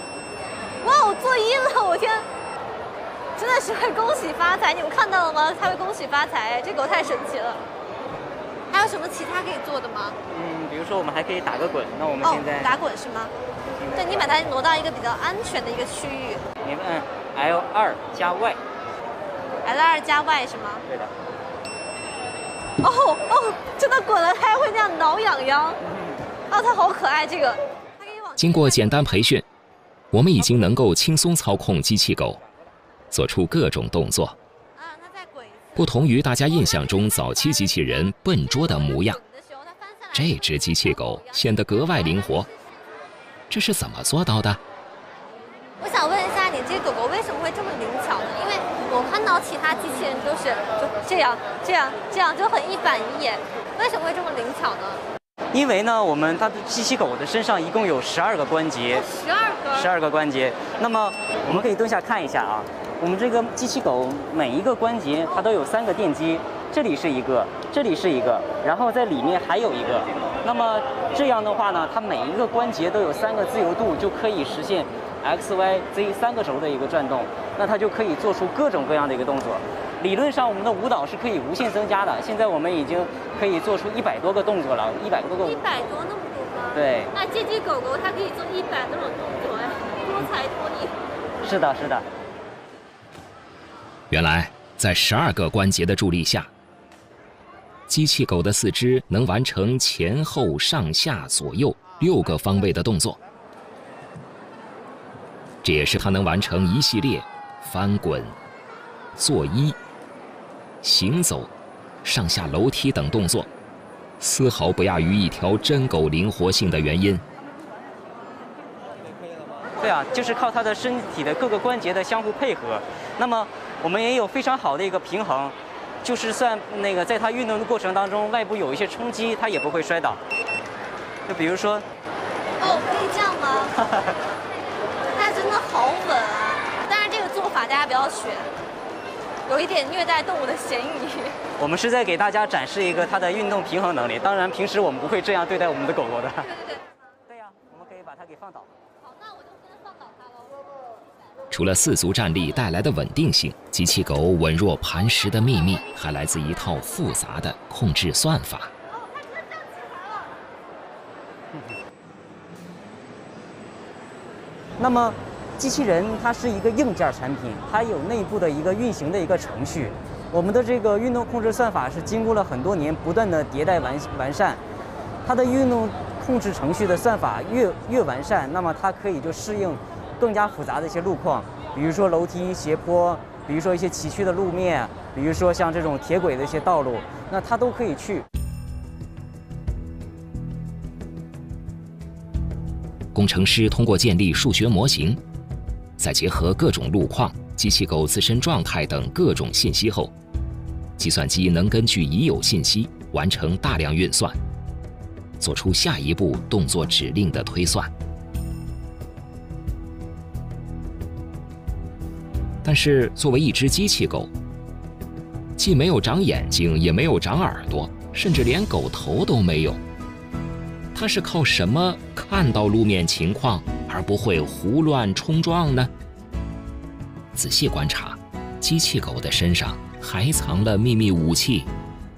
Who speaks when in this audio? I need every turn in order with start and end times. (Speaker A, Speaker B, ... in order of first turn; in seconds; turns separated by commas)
Speaker A: 0.8-2.2, Speaker A: 3.4-7.6, Speaker A: 8.7-10.2, Speaker B: 10.3-12.8, Speaker A: 12.2-13.3, Speaker B: 13.8-14.4, Speaker A: 13.9-16.4, Speaker B: 16.6-18.6, Speaker A: 19.6-20.9, Speaker A: 22.8-25.8, Speaker A: 26.5-28.8, Speaker C: 28.4-29.4, Speaker C: 30.1-32.4, Speaker C: 33.1-34.4, Speaker A: 34.8-35.9, Speaker C: 35.8-39.2, Speaker A: 38.5-41.5, Speaker C: 40.1-42.5, Speaker C: 43.5-44.6, Speaker A: 45.8-55.0, Speaker B: 55.5-59.0, Speaker A: 58.9-59.9, Speaker B: 59.7-85.7, Speaker A: 85.4-91.0, Speaker B: 86.7-87.1, Speaker B: 91.4-92.0, Speaker C: 94.1-96.5, Speaker C: 97.9-103.2, Speaker C: 105.6-108.4, Speaker C: 109.2-109.8, Speaker C: 110.8-111.5, Speaker C: 112.0-113.5, Speaker C: 114.2-117.2, Speaker B: 119.8-130.2, Speaker B: 131.3-131.8, Speaker A: 132.6-133.7, Speaker A: 135.1-138.5, Speaker A: 139.5-141.4, Speaker B: 141.6-146.5, Speaker A: 146.4-146.8, Speaker B: 147.3-148.7, Speaker A: 149.0-150.6, Speaker C: 151.5-158.7, Speaker B: 164.8-174.6, Speaker B: 175.2-188.2, Speaker C: 193.1-195.2, Speaker C: 196.0-200.1, Speaker C: 201.0-204.4, Speaker C: 205.4-207.9, Speaker C: 212.6-214.3, Speaker C: 215.6-219.8, Speaker C: 220.9-225.9, Speaker C: 227.3-231.7